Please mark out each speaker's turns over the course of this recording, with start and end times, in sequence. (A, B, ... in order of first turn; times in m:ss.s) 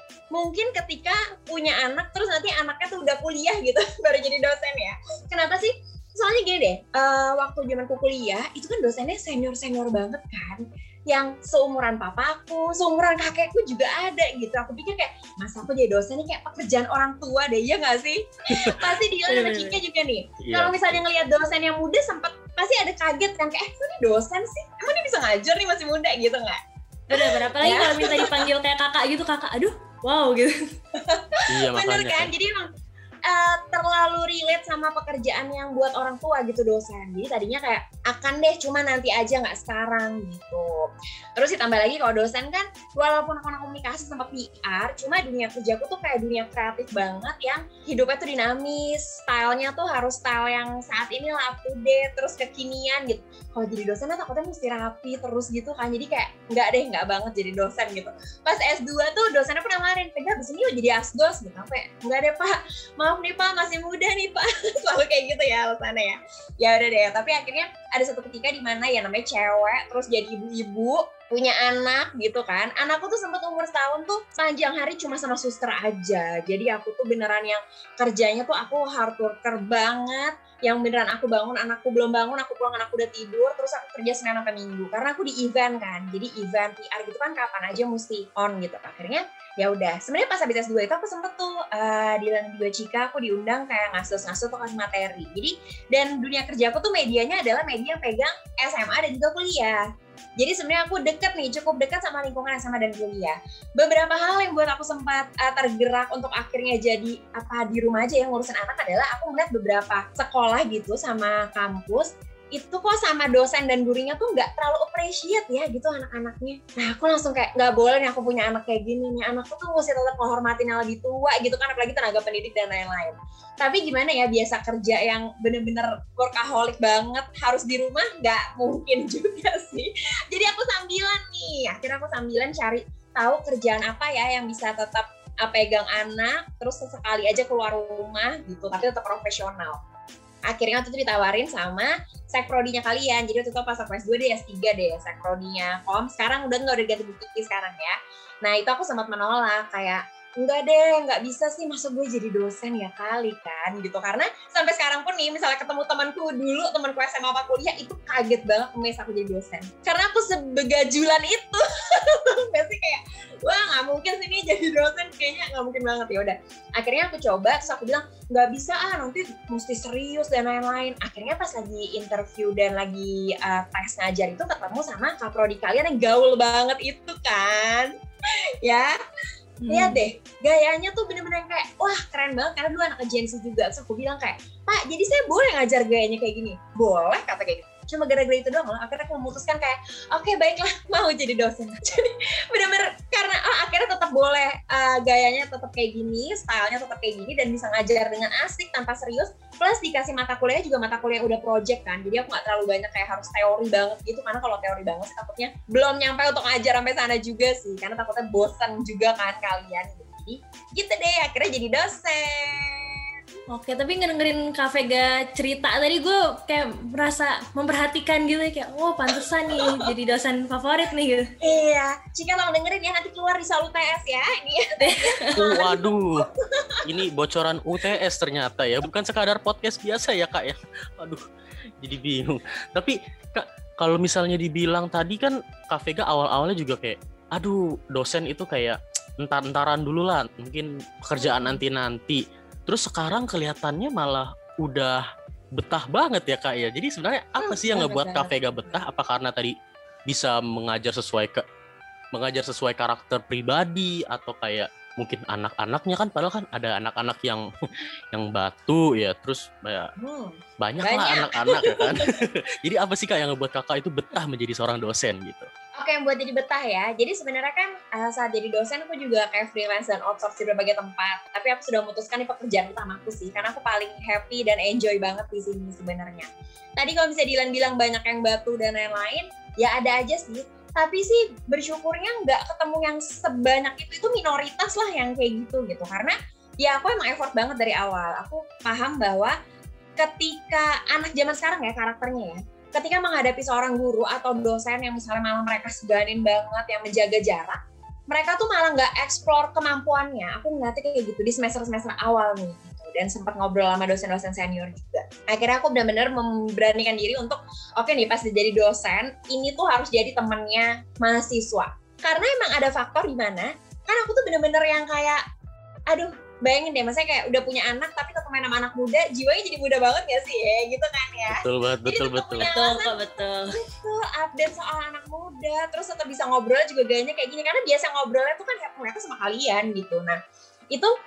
0:00.3-0:26.6 A
0:18.5-0:18.9 B
0:19.3-0:19.8 C
0:20.4-0:21.0 B
0:27.1-0:30.5 C
0:27.1-0:28.4 A
0:30.9-0:32.7 A
0:31.5-0:32.3 B
0:33.2-1:39.8 A
1:40.4-2:19.8 A
2:20.5-2:57.9 A
2:58.6-2:59.0 A
2:59.6-3:00.0 C
2:59.7-3:33.0 A
3:33.5-3:41.3 C
3:39.1-3:39.9 A
3:41.4-3:46.8 A
3:44.8-3:45.4 C
3:45.4-3:46.2 B
3:46.8-3:51.2 B
3:51.8-4:05.0 B
4:01.2-4:01.6 A
4:05.6-4:09.5 B
4:07.4-4:08.8 A
4:10.1-4:11.4 B
4:12.1-4:17.4 B
4:18.1-4:19.9 B
4:20.0-4:22.2 A
4:20.6-4:25.5 B
4:25.8-4:49.4 A
4:50.0-4:57.6 A
4:58.1-5:15.2 A
5:15.9-5:23.0 A
5:21.3-5:22.5 B
5:22.4-5:23.6 C
5:23.5-5:30.2 A